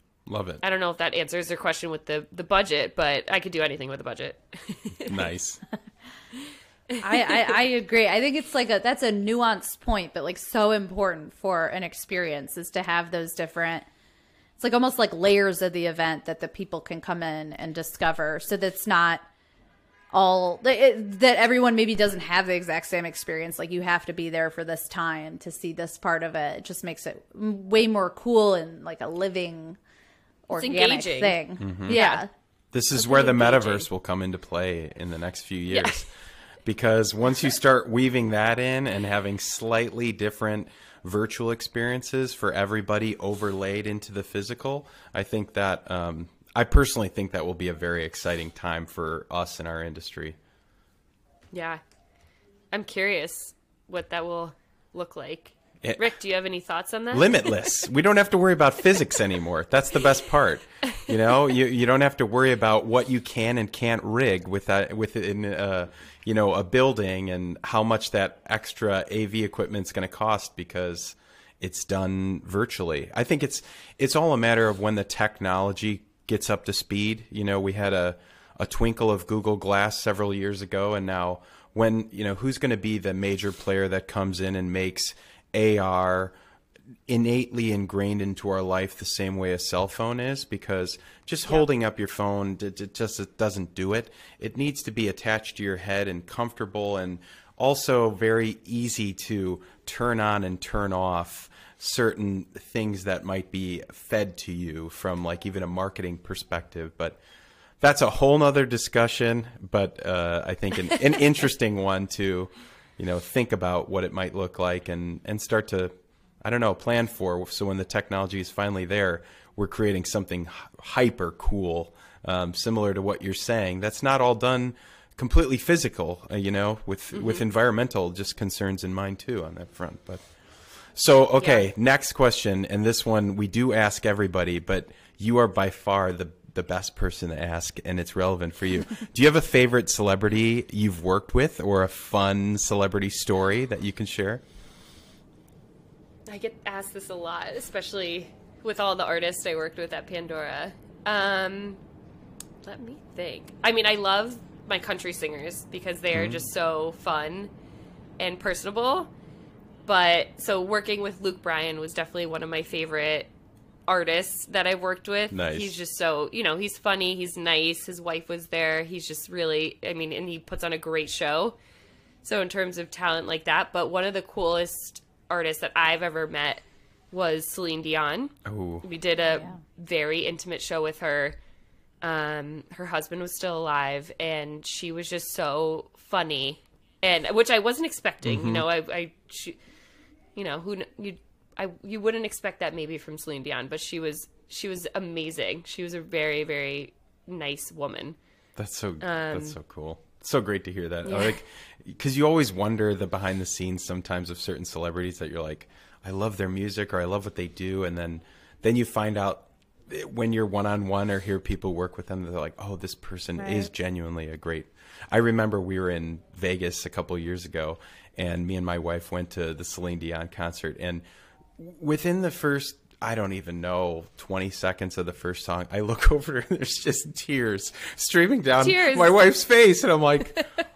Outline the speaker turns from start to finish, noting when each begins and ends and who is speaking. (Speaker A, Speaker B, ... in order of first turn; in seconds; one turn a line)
Speaker A: 0.3-0.6
Speaker B: 0.6-5.3
Speaker A: 5.1-5.6
Speaker B: 7.0-7.3
Speaker C: 7.0-13.8
Speaker C: 14.6-19.2
Speaker C: 20.1-29.8
Speaker C: 30.5-32.3
Speaker B: 30.5-32.2
Speaker A: 31.6-32.0
Speaker A: 32.7-36.1
Speaker B: 32.9-33.9
Speaker B: 35.7-36.0
Speaker A: 36.6-50.4
Speaker B: 51.5-51.8
Speaker B: 52.7-57.7
Speaker A: 57.1-86.3
Speaker A: 87.1-107.2
Speaker A: 107.8-130.3
Speaker A: 130.9-144.4
Speaker B: 131.4-131.7
Speaker B: 146.3-151.8
Speaker B: 152.6-157.5
Speaker A: 156.1-156.4
Speaker B: 158.2-159.1
Speaker B: 159.8-163.3
Speaker B: 163.9-171.6
Speaker A: 165.3-165.8
Speaker B: 172.2-181.4
Speaker A: 178.4-178.8
Speaker B: 182.0-189.6
Speaker A: 188.2-188.6
Speaker B: 190.3-198.2
Speaker A: 198.6-221.0
Speaker B: 199.0-199.6
Speaker B: 201.0-201.4
Speaker A: 221.6-230.4
Speaker B: 228.6-229.2